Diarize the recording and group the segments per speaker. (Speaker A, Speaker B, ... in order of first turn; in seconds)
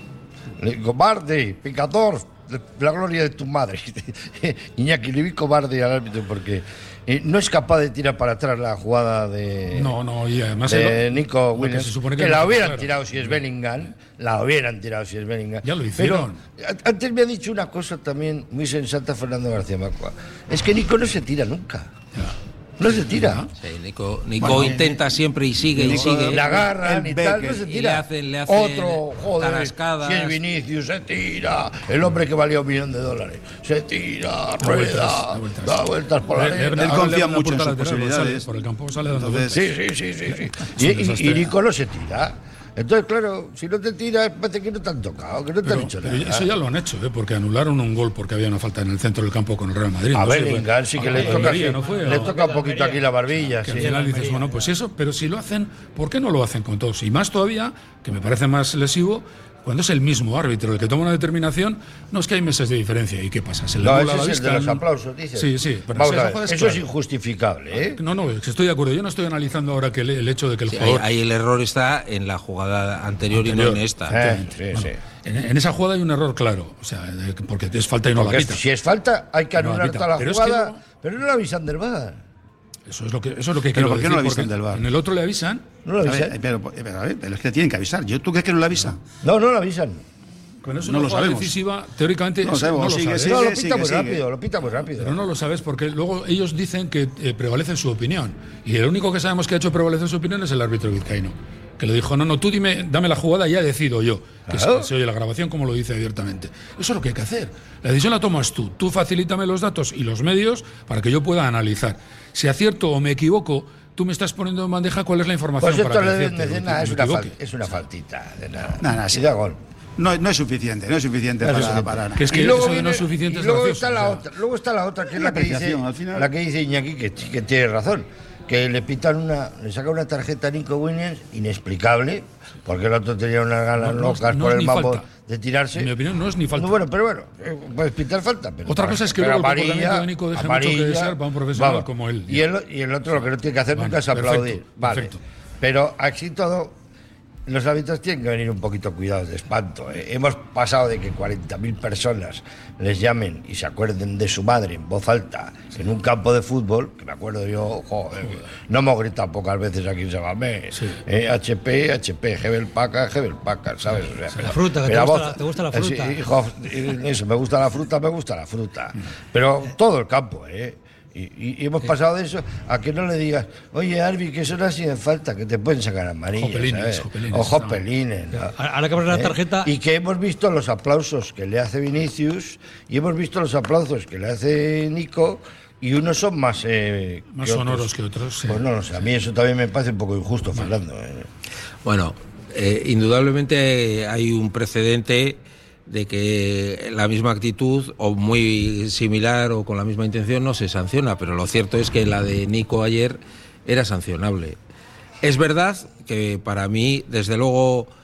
Speaker A: 0.6-9.9, 10.7-21.9, 22.8-23.5, 26.2-37.0, 39.5-46.5, 50.1-53.9, 63.8-68.0, 74.1-75.0, 78.2-82.2, 85.8-86.4, 89.2-90.0, 93.2-95.2, 104.5-104.9, 115.6-119.6, 121.5-135.9, 136.6-146.8, 147.5-178.5, 179.1-187.9, 188.5-191.3
Speaker B: 9.8-13.4, 15.6-16.4, 23.0-23.5, 34.6-39.6, 40.6-41.5, 45.6-52.3, 53.6-64.8, 65.4-66.8, 67.9-71.1, 73.3-78.6, 79.6-80.8, 82.9-85.6, 90.6-93.4, 95.0-117.3, 121.5-124.2, 133.8-135.1, 135.8-136.8, 138.7-142.5, 143.7-145.2, 160.7-161.0, 176.4-177.8, 187.3-188.6
Speaker C: 23.6-26.6, 27.6-30.4, 70.7-74.2, 191.8-204.6, 205.2-207.9
Speaker D: 24.4-24.8, 25.7-27.6, 36.8-38.5, 39.0-39.6, 83.7-84.8, 86.0-89.0, 90.8-91.5, 92.4-94.2, 118.8-119.2, 120.0-122.6, 125.1-126.3
Speaker E: 24.5-25.0, 51.1-53.1, 53.7-54.7, 164.4-166.2, 178.3-179.7